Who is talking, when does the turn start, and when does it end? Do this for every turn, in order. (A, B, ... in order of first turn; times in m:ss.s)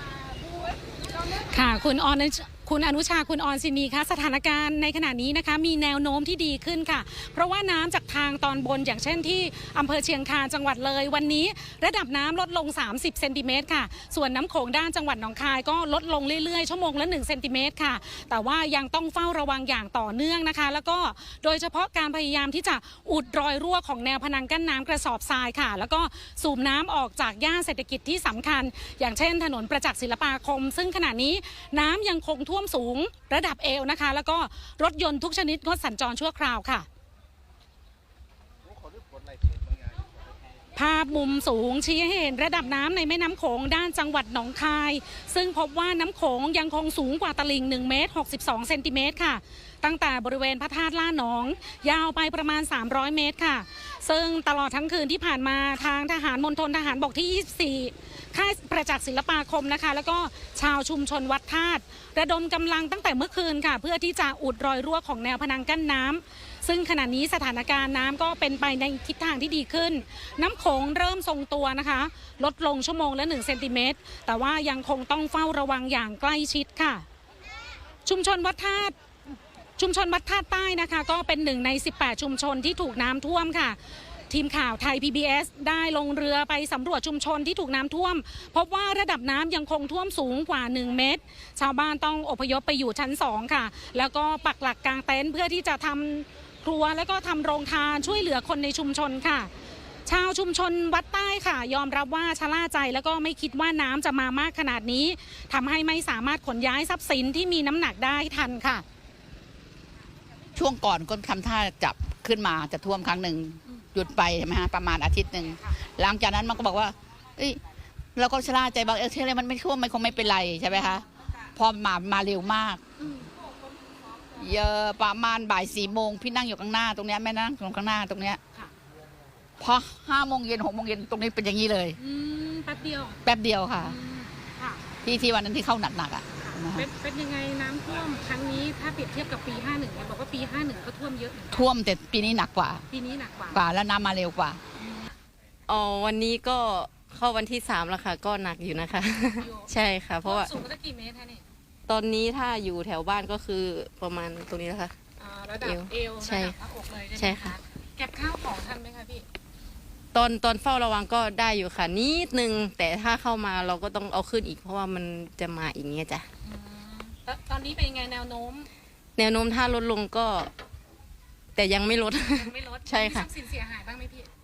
0:01.2-0:36.9 A
0:40.8-1:17.0 A
1:18.0-1:18.9 A
1:19.8-1:23.8 A
1:24.3-1:39.5 A
1:40.0-1:48.8 A
1:50.5-1:57.6 B
1:58.2-2:02.8 B
2:03.0-2:03.3 A
2:04.4-2:08.4 B
2:09.6-2:12.0 B
2:12.0-2:13.2 A
2:13.2-2:14.0 B
2:13.8-2:14.8 A
2:15.0-2:16.9 B
2:16.4-2:21.7 A
2:21.5-2:22.8 B
2:22.9-2:23.6 A
2:23.5-2:24.6 B
2:24.8-2:25.1 A
2:25.7-2:30.5 C
2:29.4-2:31.4 A
2:31.9-2:34.9 C
2:35.2-2:39.2 A
2:35.6-2:36.6 C
2:37.2-2:37.6 C
2:40.1-2:46.2 C
2:46.4-2:48.7 A
2:49.2-2:50.5 C
2:51.6-2:53.3 C
2:52.3-2:54.3 A